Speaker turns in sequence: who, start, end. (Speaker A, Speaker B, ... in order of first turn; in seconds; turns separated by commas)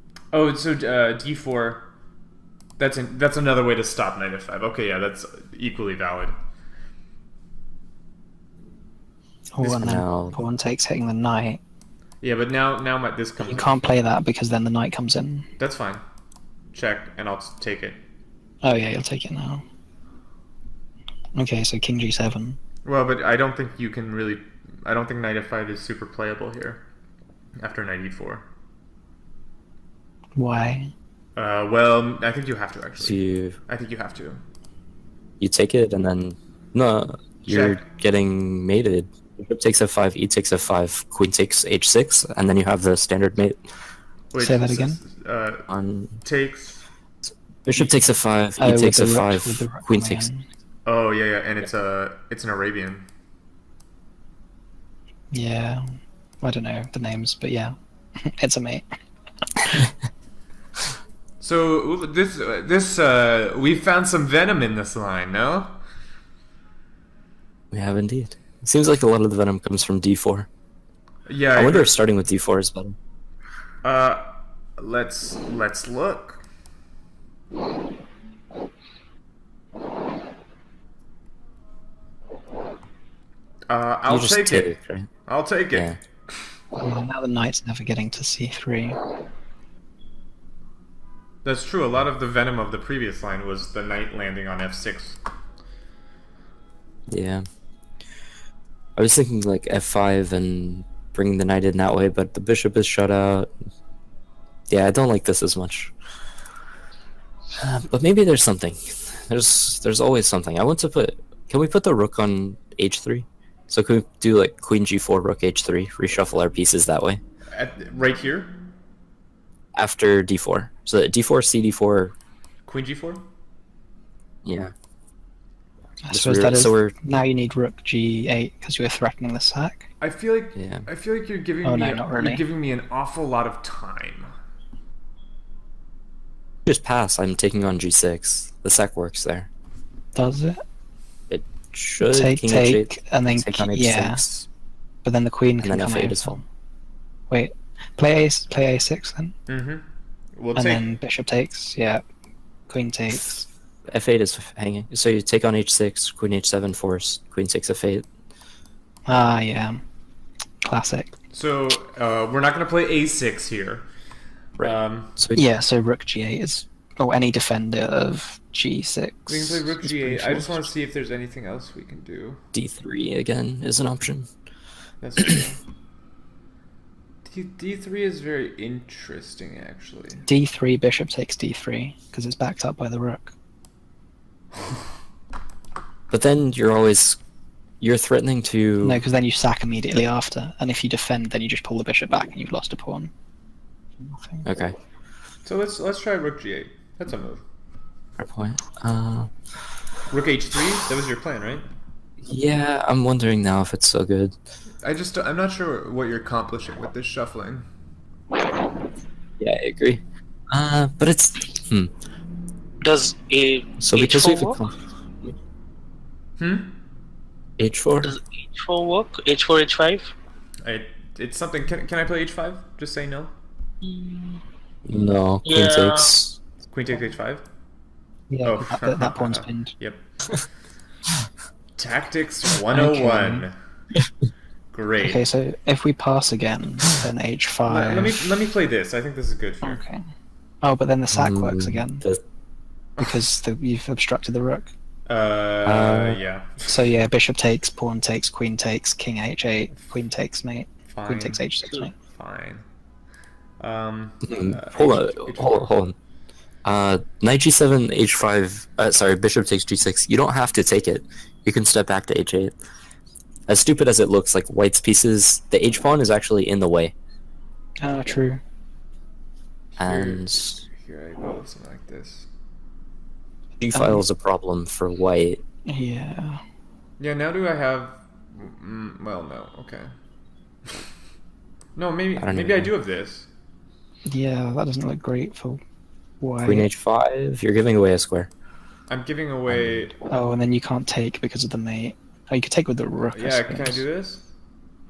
Speaker A: 0.3-1.9, Speaker A: 2.8-6.3, Speaker B: 9.5-11.6, Speaker C: 9.7-10.4, Speaker A: 12.2-13.8, Speaker B: 13.4-15.5, Speaker A: 15.6-16.0, Speaker A: 16.7-18.0, Speaker B: 18.6-19.6, Speaker B: 21.4-22.6, Speaker A: 22.9-26.8, Speaker A: 27.6-28.5, Speaker B: 30.4-30.9, Speaker A: 31.4-34.4, Speaker C: 33.0-33.6, Speaker C: 35.4-43.6, Speaker A: 37.5-37.8, Speaker A: 44.3-45.7, Speaker B: 44.4-45.0, Speaker C: 45.7-46.2, Speaker A: 46.2-46.8, Speaker C: 47.6-50.3, Speaker B: 48.6-50.5, Speaker A: 50.9-53.1, Speaker B: 55.3-55.8, Speaker B: 56.4-58.9, Speaker A: 61.4-65.8, Speaker C: 67.7-70.5, Speaker A: 71.3-72.0, Speaker C: 71.5-73.0, Speaker A: 73.8-76.4, Speaker A: 83.7-84.8, Speaker C: 84.1-85.1, Speaker A: 85.3-86.0, Speaker C: 85.7-86.0, Speaker B: 86.8-89.0, Speaker A: 91.5-95.2, Speaker C: 97.1-97.4, Speaker C: 99.0-103.5, Speaker C: 104.7-105.9, Speaker C: 107.6-117.2, Speaker A: 117.5-118.6, Speaker C: 119.8-122.2, Speaker A: 122.7-123.2, Speaker C: 124.5-124.7, Speaker B: 126.1-129.9, Speaker C: 126.1-126.9, Speaker A: 130.0-134.3, Speaker C: 130.6-130.9, Speaker B: 131.6-132.4, Speaker C: 136.7-139.5, Speaker B: 140.2-140.6, Speaker C: 141.3-144.5, Speaker B: 142.1-144.2, Speaker B: 145.0-146.4, Speaker C: 145.6-146.4, Speaker B: 147.3-149.3, Speaker A: 149.5-149.8, Speaker A: 150.4-150.9, Speaker B: 150.6-152.0, Speaker B: 152.7-153.4, Speaker C: 153.1-158.1, Speaker B: 159.1-159.8, Speaker B: 160.7-161.1, Speaker A: 161.3-163.8, Speaker C: 164.6-165.4, Speaker A: 164.6-165.2, Speaker B: 165.4-170.7, Speaker A: 169.3-172.4, Speaker C: 172.5-174.3, Speaker A: 175.0-175.6, Speaker A: 177.2-180.2, Speaker B: 180.3-183.3, Speaker C: 186.1-187.2, Speaker C: 187.8-189.0, Speaker B: 188.8-193.1, Speaker B: 194.0-194.5, Speaker C: 194.4-194.8, Speaker A: 195.4-197.4, Speaker C: 198.2-199.3, Speaker A: 200.1-201.7, Speaker C: 202.2-204.3, Speaker A: 204.8-207.7, Speaker C: 209.4-211.9, Speaker D: 212.8-214.6, Speaker C: 213.8-214.8, Speaker A: 216.4-216.7, Speaker C: 217.6-218.2, Speaker D: 218.0-220.1, Speaker A: 220.6-223.3, Speaker D: 223.8-224.4, Speaker C: 224.9-226.4, Speaker D: 225.4-226.1, Speaker A: 226.7-227.4, Speaker B: 228.3-229.7, Speaker A: 228.4-230.0, Speaker A: 231.8-233.6, Speaker B: 232.7-233.5, Speaker A: 234.7-235.2, Speaker B: 235.0-238.4, Speaker A: 237.7-239.8, Speaker B: 239.6-240.0, Speaker B: 240.6-242.1, Speaker C: 241.1-242.2, Speaker B: 243.0-244.7, Speaker A: 245.1-246.9, Speaker C: 245.6-246.2, Speaker B: 246.7-251.9, Speaker A: 250.9-251.4, Speaker A: 252.1-252.6, Speaker A: 253.6-255.7, Speaker C: 254.3-255.9, Speaker C: 256.6-262.6, Speaker C: 263.5-266.9, Speaker B: 267.8-268.4, Speaker A: 269.8-272.3, Speaker C: 269.8-270.6, Speaker C: 273.6-275.4, Speaker B: 273.7-274.0, Speaker B: 275.7-276.4, Speaker A: 277.0-279.9, Speaker A: 281.8-283.3, Speaker C: 282.2-282.7, Speaker B: 284.1-285.6, Speaker B: 286.2-286.7, Speaker C: 286.4-288.3, Speaker A: 288.9-290.1, Speaker C: 289.5-289.9, Speaker B: 290.1-293.8, Speaker A: 293.1-294.2